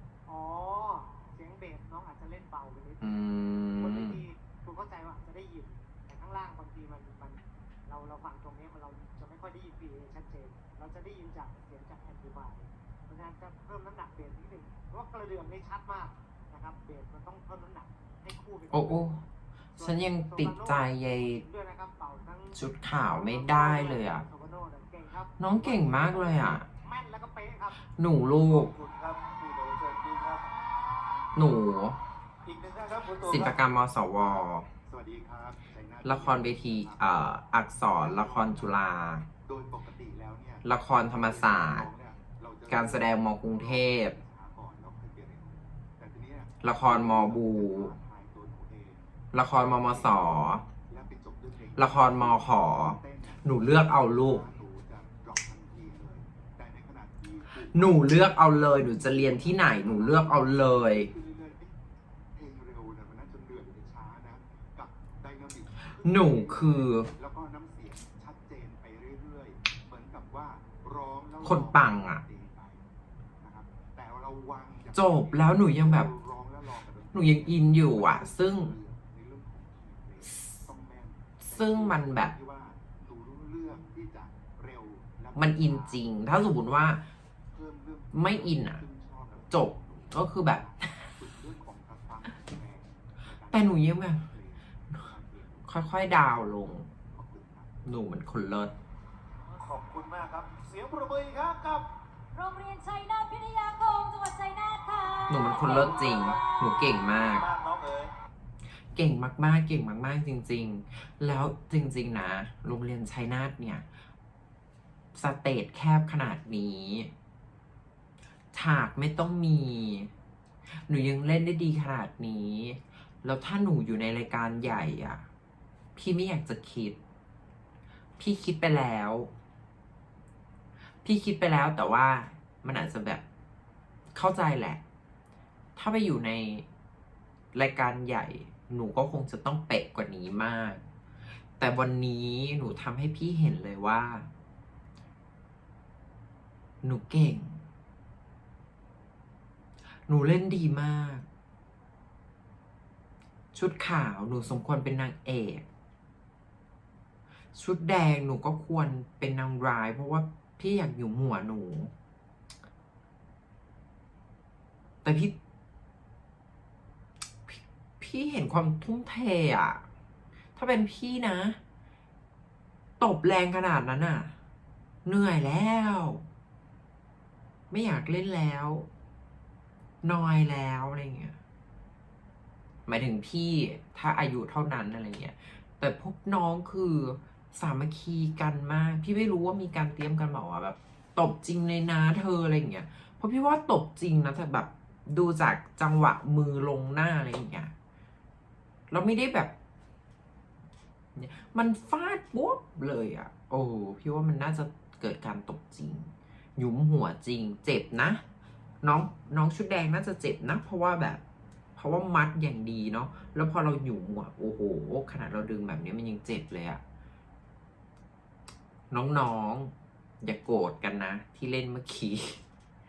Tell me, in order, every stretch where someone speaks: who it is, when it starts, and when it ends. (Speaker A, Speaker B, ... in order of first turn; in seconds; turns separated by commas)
Speaker A: 0.3-3.3, Speaker B: 3.0-4.2, Speaker A: 3.8-19.1, Speaker B: 18.7-19.2, Speaker A: 19.8-27.8, Speaker B: 19.8-21.4, Speaker B: 22.5-24.2, Speaker B: 25.4-26.7, Speaker B: 27.9-28.7, Speaker C: 28.5-30.6, Speaker B: 31.3-32.0, Speaker C: 32.4-33.6, Speaker B: 33.2-34.7, Speaker D: 34.9-37.3, Speaker B: 36.0-39.2, Speaker D: 37.9-38.8, Speaker D: 39.4-61.8, Speaker B: 40.6-41.9, Speaker B: 42.7-44.1, Speaker B: 46.6-47.9, Speaker B: 49.3-50.6, Speaker B: 51.8-54.4, Speaker B: 57.7-61.1, Speaker D: 62.3-72.8, Speaker B: 66.0-67.1, Speaker B: 71.4-72.2, Speaker D: 73.4-86.0, Speaker B: 74.9-76.1, Speaker B: 77.1-78.7, Speaker B: 81.4-82.3, Speaker B: 85.3-87.1, Speaker D: 87.5-97.8, Speaker B: 88.1-88.8, Speaker B: 89.5-90.7, Speaker B: 93.5-94.2, Speaker B: 95.6-96.9, Speaker B: 97.8-98.7, Speaker C: 99.6-101.9, Speaker E: 102.3-106.8, Speaker B: 105.3-107.5, Speaker C: 105.5-108.1, Speaker B: 108.9-113.8, Speaker B: 115.1-117.1, Speaker B: 118.5-120.1, Speaker B: 120.8-125.2, Speaker B: 126.0-127.0, Speaker B: 128.2-129.3, Speaker B: 131.0-133.2, Speaker B: 134.1-134.8, Speaker B: 135.8-136.7, Speaker B: 137.5-140.8, Speaker B: 141.6-144.3, Speaker B: 146.8-147.6, Speaker B: 150.1-151.2, Speaker B: 153.5-155.7, Speaker B: 157.5-161.9, Speaker B: 165.0-165.3, Speaker B: 167.5-169.8, Speaker B: 170.6-171.6, Speaker B: 173.0-174.3, Speaker B: 175.0-176.2, Speaker B: 177.7-178.9, Speaker B: 180.0-181.3, Speaker B: 182.9-197.7, Speaker B: 198.9-199.5, Speaker B: 201.1-208.2, Speaker B: 208.8-211.2, Speaker B: 211.8-216.8, Speaker B: 218.9-222.4